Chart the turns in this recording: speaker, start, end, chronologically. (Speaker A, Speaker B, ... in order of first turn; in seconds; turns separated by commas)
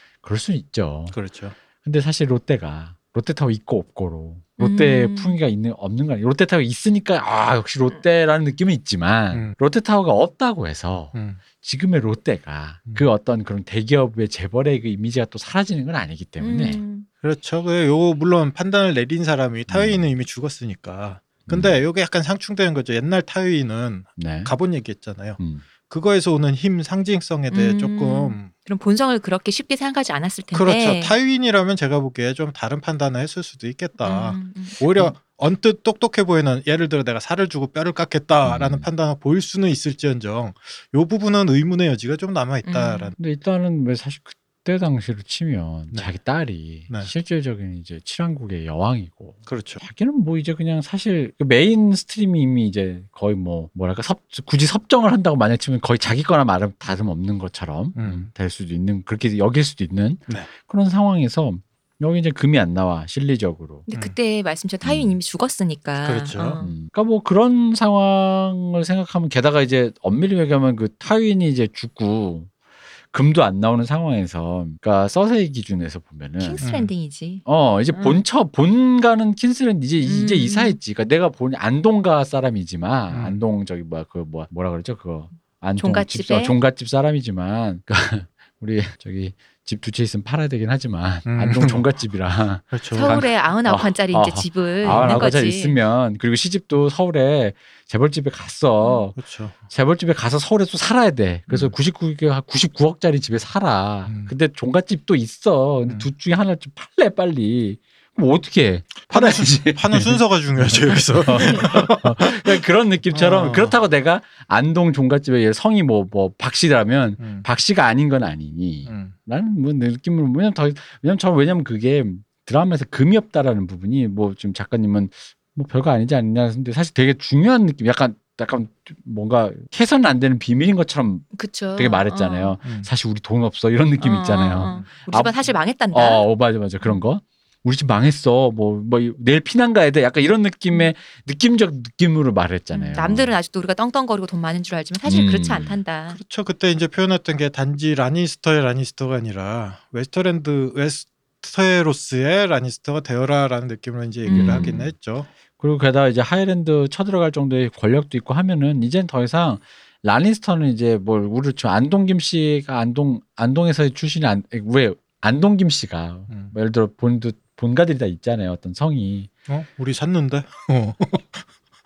Speaker A: 0.2-1.2, Speaker B: 1.1-1.6, Speaker A: 1.8-16.8, Speaker C: 4.6-5.4, Speaker B: 11.1-11.4, Speaker C: 16.4-17.1, Speaker B: 17.2-28.5, Speaker A: 19.7-20.1, Speaker A: 21.5-21.8, Speaker A: 24.2-24.5, Speaker A: 25.4-25.6, Speaker C: 27.5-31.2, Speaker B: 30.5-43.2, Speaker C: 34.0-34.8, Speaker A: 38.4-38.9, Speaker C: 42.6-43.1, Speaker A: 43.2-63.9, Speaker B: 49.5-49.8, Speaker B: 58.0-58.3, Speaker C: 63.9-66.7, Speaker B: 63.9-64.2, Speaker A: 64.8-65.2, Speaker B: 66.0-66.7, Speaker A: 66.6-72.5, Speaker A: 73.1-76.6, Speaker C: 76.4-78.2, Speaker B: 76.6-76.9, Speaker A: 77.5-143.3, Speaker C: 80.0-80.8, Speaker B: 83.1-83.4, Speaker C: 85.8-86.5, Speaker B: 91.3-91.9, Speaker B: 92.7-93.2, Speaker C: 92.9-95.8, Speaker B: 94.8-95.2, Speaker C: 98.8-99.1, Speaker B: 99.2-99.6, Speaker B: 101.5-101.7, Speaker B: 104.1-104.3, Speaker B: 109.1-112.6, Speaker B: 113.1-113.8, Speaker B: 117.2-117.5, Speaker B: 118.9-119.2, Speaker C: 131.3-132.6, Speaker B: 132.6-132.9, Speaker C: 134.0-136.3, Speaker B: 134.6-134.9, Speaker C: 142.7-146.2, Speaker A: 145.1-145.8, Speaker B: 146.1-155.3, Speaker C: 154.2-154.8, Speaker A: 154.3-154.9, Speaker A: 155.6-169.3, Speaker B: 166.3-166.6, Speaker B: 169.5-171.5